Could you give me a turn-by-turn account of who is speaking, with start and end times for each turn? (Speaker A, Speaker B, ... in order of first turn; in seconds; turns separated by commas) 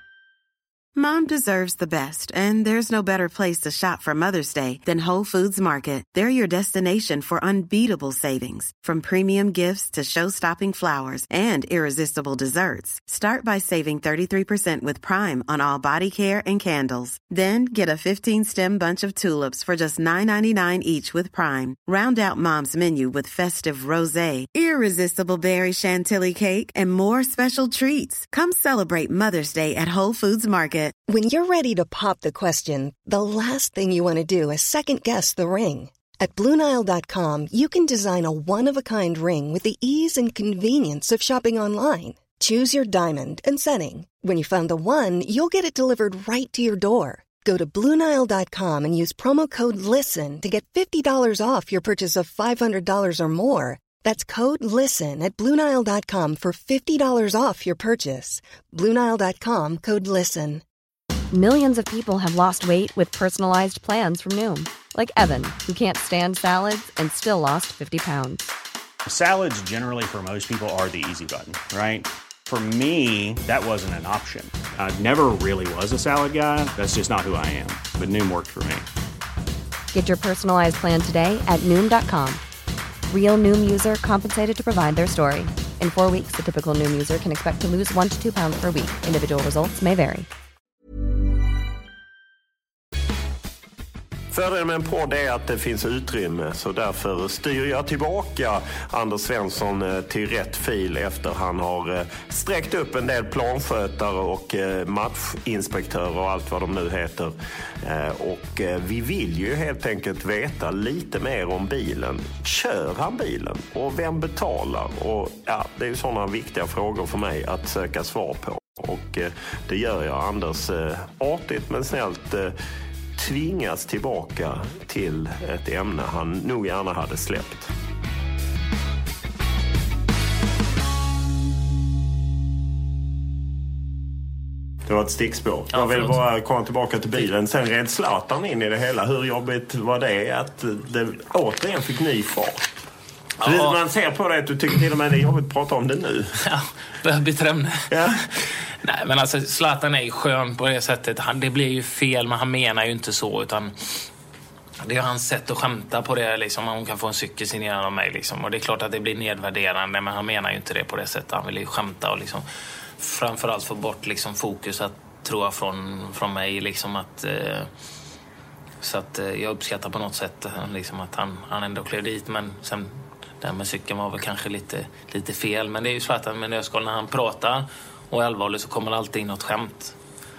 Speaker A: 0.9-31.0, Speaker B: 31.1-60.6, Speaker C: 61.3-68.4, Speaker D: 69.0-78.8, Speaker C: 79.9-82.4, Speaker C: 83.1-90.3, Speaker E: 94.3-122.5, Speaker E: 123.1-127.7, Speaker E: 134.8-142.7, Speaker F: 135.7-136.2, Speaker F: 143.4-143.8, Speaker E: 143.4-146.4, Speaker F: 146.4-154.1, Speaker E: 147.9-148.2, Speaker F: 154.8-162.4, Speaker F: 163.0-167.7, Speaker F: 168.8-179.9